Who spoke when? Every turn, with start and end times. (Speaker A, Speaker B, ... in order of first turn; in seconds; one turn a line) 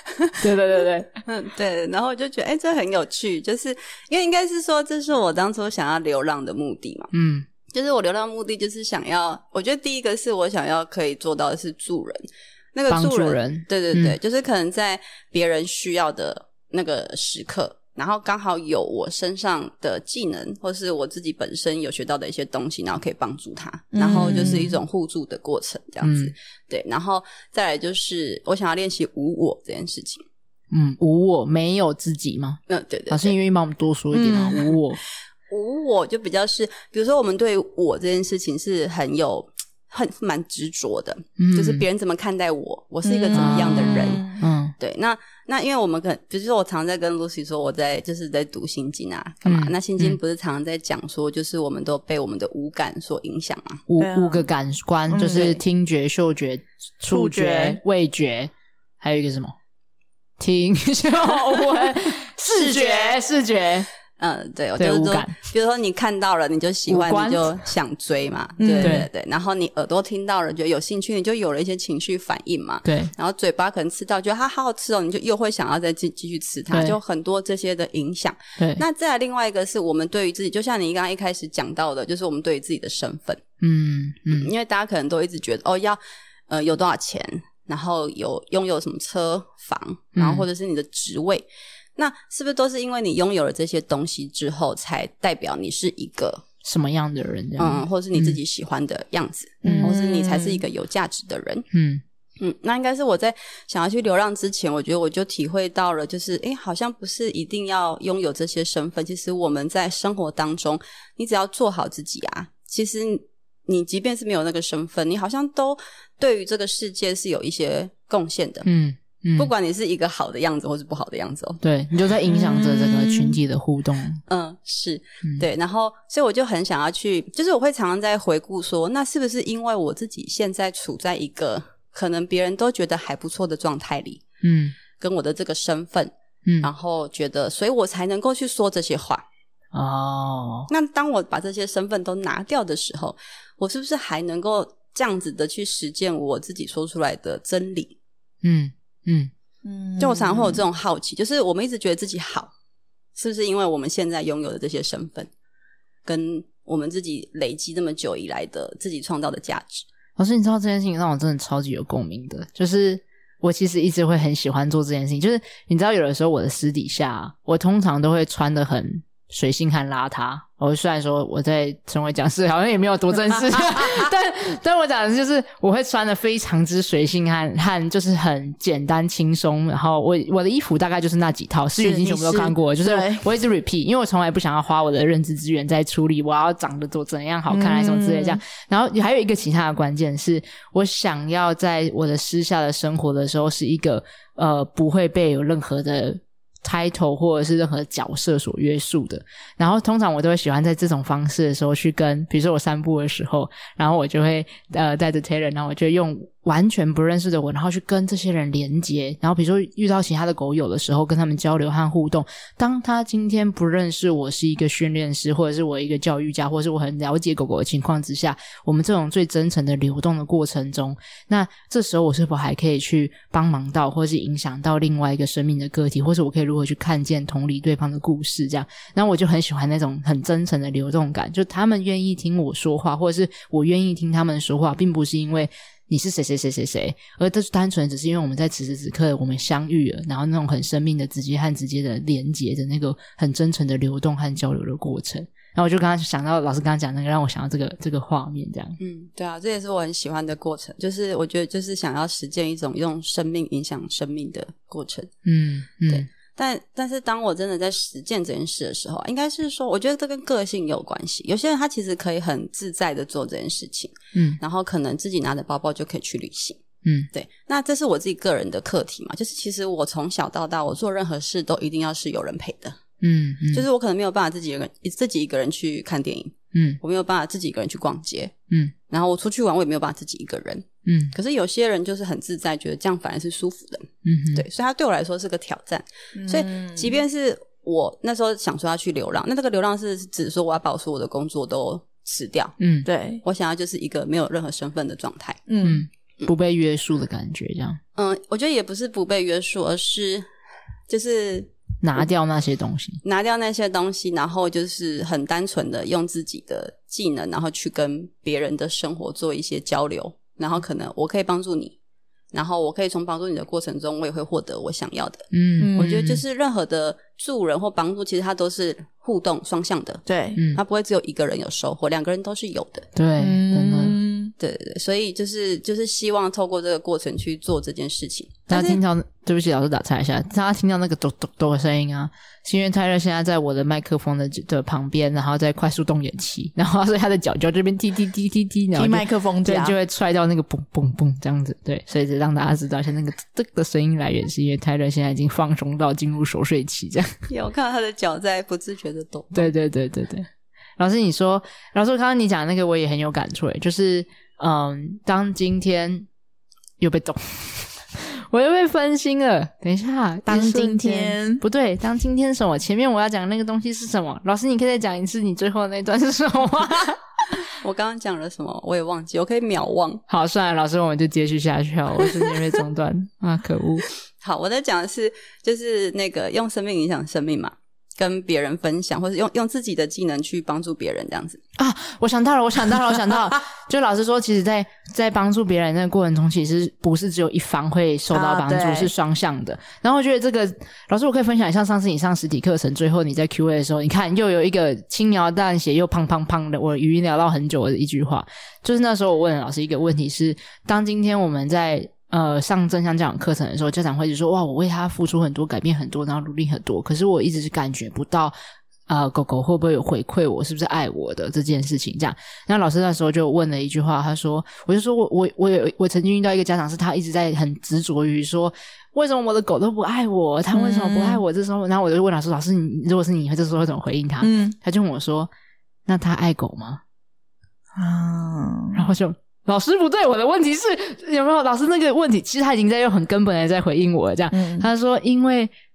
Speaker A: 0.4-1.1
Speaker B: 1.3-7.1
Speaker A: 7.1-7.5
Speaker B: 7.7-30.2
Speaker A: 12.9-14.2
Speaker C: 23.9-24.7
Speaker A: 24.1-24.6
Speaker A: 26.0-26.3
Speaker A: 30.7-35.0
Speaker B: 32.7-33.3
Speaker C: 34.1-34.7
Speaker B: 35.5-44.2
Speaker A: 41.4-41.8
Speaker C: 43.0-44.4
Speaker A: 43.3-44.7
Speaker B: 44.8-53.8
Speaker A: 49.4-50.2
Speaker A: 53.9-59.5
Speaker C: 54.0-54.4
Speaker C: 55.1-55.6
Speaker C: 57.1-57.8
Speaker A: 60.4-63.9
Speaker B: 62.5-63.2
Speaker B: 64.2-83.4
Speaker A: 64.8-65.4
Speaker A: 66.9-67.6
Speaker C: 68.6-69.0
Speaker A: 68.8-69.1
Speaker A: 72.8-73.1
Speaker A: 76.7-77.0
Speaker A: 78.6-78.8
Speaker A: 83.6-84.5
Speaker B: 84.3-96.4
Speaker A: 90.2-90.5
Speaker A: 96.6-98.4
Speaker B: 97.6-101.7
Speaker C: 99.6-100.6
Speaker A: 99.6-100.0
Speaker A: 101.7-102.0
Speaker B: 102.4-118.7
Speaker A: 118.7-119.5
Speaker B: 119.3-121.6
Speaker A: 121.6-124.2
Speaker C: 122.2-123.4
Speaker B: 124.3-134.2
Speaker A: 134.4-134.8
Speaker B: 135.0-139.2
Speaker A: 139.7-140.7
Speaker B: 140.7-147.9
Speaker A: 148.4-149.3
Speaker C: 149.6-150.6
Speaker B: 150.0-152.5
Speaker B: 153.2-155.3
Speaker B: 156.1-159.8
Speaker A: 160.2-248.8
Speaker C: 181.8-183.2
Speaker C: 187.5-188.4
Speaker B: 248.8-255.1
Speaker A: 255.2-256.1
Speaker B: 255.9-272.8
Speaker A: 264.1-264.4
Speaker A: 266.8-267.1
Speaker A: 273.0-273.6
Speaker B: 273.5-278.3
Speaker A: 276.5-276.8
Speaker B: 278.9-292.5
Speaker A: 280.9-281.1
Speaker A: 284.0-284.4
Speaker C: 286.1-287.0
Speaker A: 292.6-292.9
Speaker C: 292.8-293.2
Speaker B: 293.2-295.4
Speaker C: 295.5-295.8
Speaker A: 295.6-297.8
Speaker B: 297.9-300.3
Speaker B: 300.9-301.5
Speaker A: 301.8-303.0
Speaker B: 303.0-311.8
Speaker B: 312.3-320.0
Speaker A: 315.3-316.2
Speaker C: 315.6-316.0
Speaker C: 320.1-320.4
Speaker A: 320.3-320.6
Speaker B: 320.5-322.9
Speaker A: 322.9-324.0
Speaker C: 323.2-324.3
Speaker B: 324.4-328.8
Speaker A: 328.5-347.1
Speaker C: 338.7-339.8
Speaker B: 347.3-349.5
Speaker A: 349.3-356.1
Speaker A: 356.8-367.0
Speaker C: 360.3-361.4
Speaker B: 367.5-370.0
Speaker A: 370.1-373.8
Speaker B: 374.2-381.4
Speaker A: 381.6-408.3
Speaker C: 388.1-388.9
Speaker A: 408.9-425.3
Speaker C: 420.5-421.2
Speaker C: 424.2-424.6
Speaker A: 425.9-426.8
Speaker C: 427.8-428.8
Speaker A: 428.7-435.5
Speaker C: 434.3-434.7